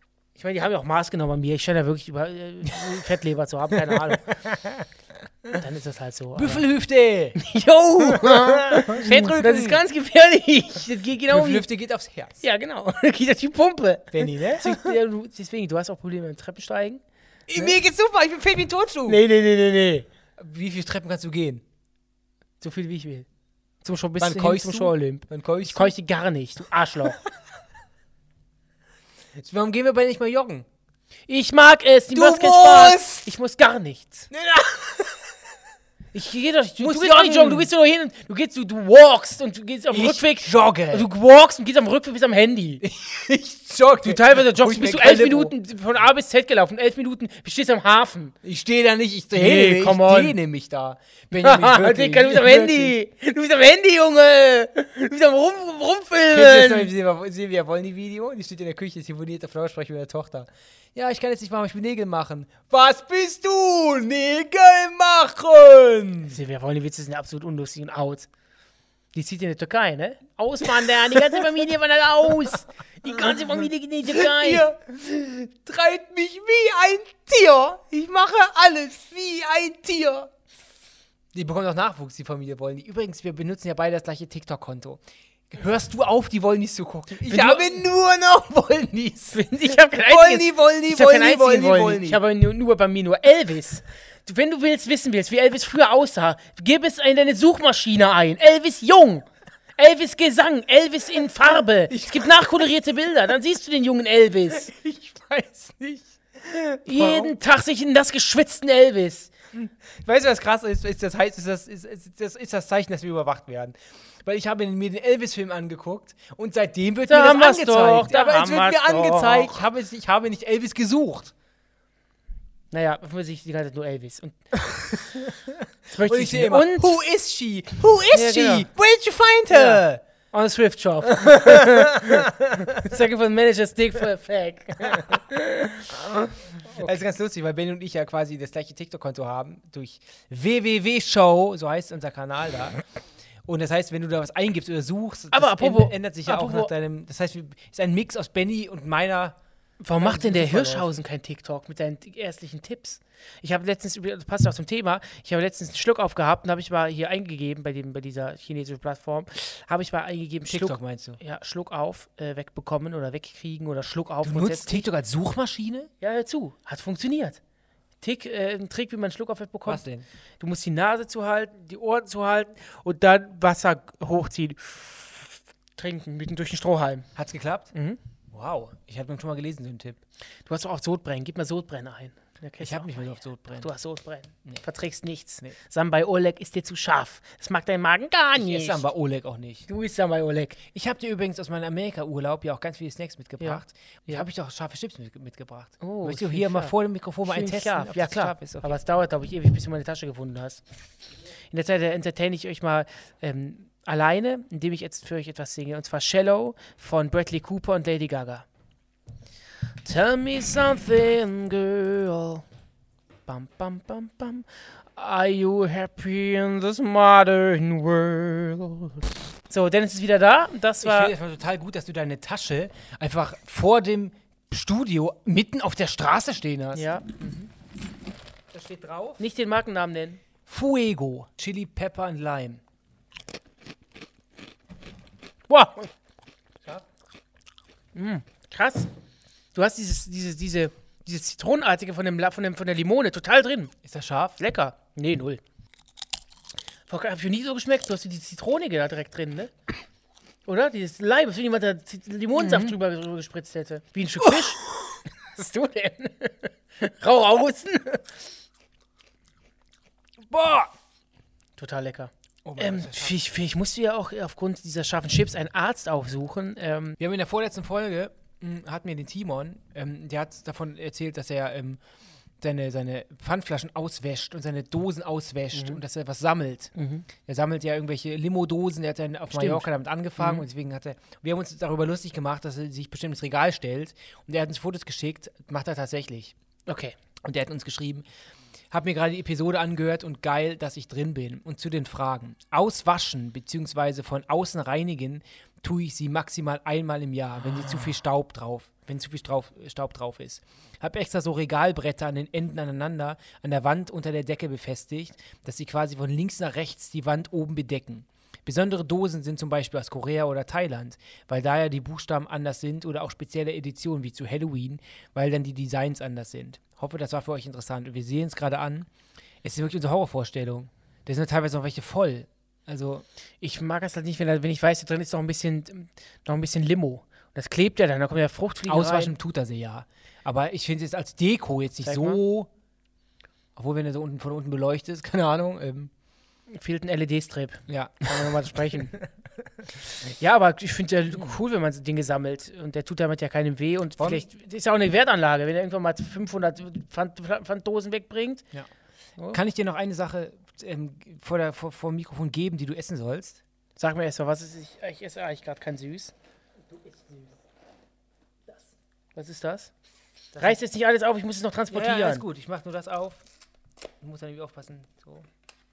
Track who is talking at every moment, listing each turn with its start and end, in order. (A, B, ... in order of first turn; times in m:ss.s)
0:00.4-0:04.4 A
0:02.7-0:03.0 B
0:03.8-0:04.9 B
0:05.5-0:06.7 A
0:06.4-0:07.4 B
0:07.4-0:11.7 A
0:08.0-0:09.8 B
0:11.3-0:12.4 B
0:12.4-0:17.0 A
0:14.1-0:14.9 B
0:17.5-0:19.2 B
0:19.1-0:20.1 A
0:20.4-0:21.6 B
0:22.6-0:23.3 A
0:23.8-0:27.2 A
0:24.2-0:25.9 B
0:29.4-0:30.7 B
0:31.3-0:34.3 A
0:32.1-0:33.3 B
0:34.3-0:35.3 B
0:36.2-0:42.8 A
0:36.8-0:37.7 B
0:39.9-0:41.1 B
0:42.8-0:45.5 B
0:44.0-0:48.4 A
0:48.4-0:53.0 B
0:49.3-0:50.4 A
0:51.4-0:56.9 A
0:56.3-1:06.4 B
1:06.3-1:08.3 A
1:09.1-1:14.7 A
1:11.1-1:11.4 B
1:13.2-1:20.3 B
1:21.3-1:32.2 B
1:27.3-1:27.7 A
1:29.3-1:39.3 A
1:39.8-1:44.7 A
1:41.9-1:42.7 B
1:44.5-1:47.3 B
1:46.8-1:49.3 A
1:49.5-2:01.3 B
1:57.1-1:59.6 A
2:02.7-2:04.4 A
2:04.5-2:10.0 B
2:05.9-2:07.0 A
2:08.1-2:08.7 A
2:09.5-2:17.0 A
2:11.1-2:12.8 B
2:14.9-2:15.2 B
2:16.7-2:22.8 B
2:23.5-2:29.4 B
2:25.3-2:26.7 A
2:29.8-2:44.8 A
2:29.9-2:31.0 B
2:40.5-2:41.2 B
2:44.2-2:45.9 B
2:46.0-2:47.4 A
2:48.0-2:49.8 A
2:49.7-2:50.1 B
2:50.4-2:57.1 A
2:57.2-2:57.7 B
2:57.7-2:58.0 A
2:58.3-3:00.0 B
3:00.5-3:08.9 A
3:02.6-3:03.7 B
3:08.4-3:09.7 B
3:09.7-3:10.6 A
3:10.7-3:18.8 B
3:13.4-3:14.2 A
3:15.8-3:16.7 A
3:17.2-3:20.6 A
3:21.5-3:28.5 A
3:29.8-3:32.4 A
3:33.3-3:41.1 A
3:40.8-3:46.9 B
3:46.8-3:47.5 A
3:48.5-3:49.2 B
3:49.2-3:50.2 A
3:50.5-3:52.6 B
3:55.5-3:55.9 A
3:58.0-3:58.9 A
3:59.5-4:03.7 A
4:03.8-4:04.4 B
4:04.4-4:05.4 A
4:06.9-4:09.5 A
4:10.5-4:14.6 A
4:12.4-4:12.8 B
4:14.2-4:14.7 B
4:15.4-4:18.0 A
4:20.3-4:20.7 A
4:21.6-4:27.0 A
4:22.4-4:23.2 B
4:27.0-4:31.8 B
4:32.4-4:46.3 B
4:35.5-4:35.8 A
4:36.8-4:37.1 A
4:39.3-4:39.7 A
4:40.2-4:40.5 A
4:46.7-4:47.0 A
4:47.2-4:48.1 B
4:48.7-5:18.9 B
5:19.4-5:23.0 B
5:23.4-5:29.2 A
5:28.7-5:32.5 B
5:31.8-5:32.2 A
5:33.6-5:35.9 B
5:36.5-5:39.0 A
5:37.7-5:38.8 B
5:40.2-5:48.5 A
5:44.0-5:44.3 B
5:49.3-5:53.4 B
5:53.8-5:56.1 A
5:56.7-5:57.3 B
5:59.2-5:59.7 A
6:00.3-6:00.6 B
6:00.4-6:02.2 A
6:01.7-6:03.2 B
6:04.0-6:05.3 B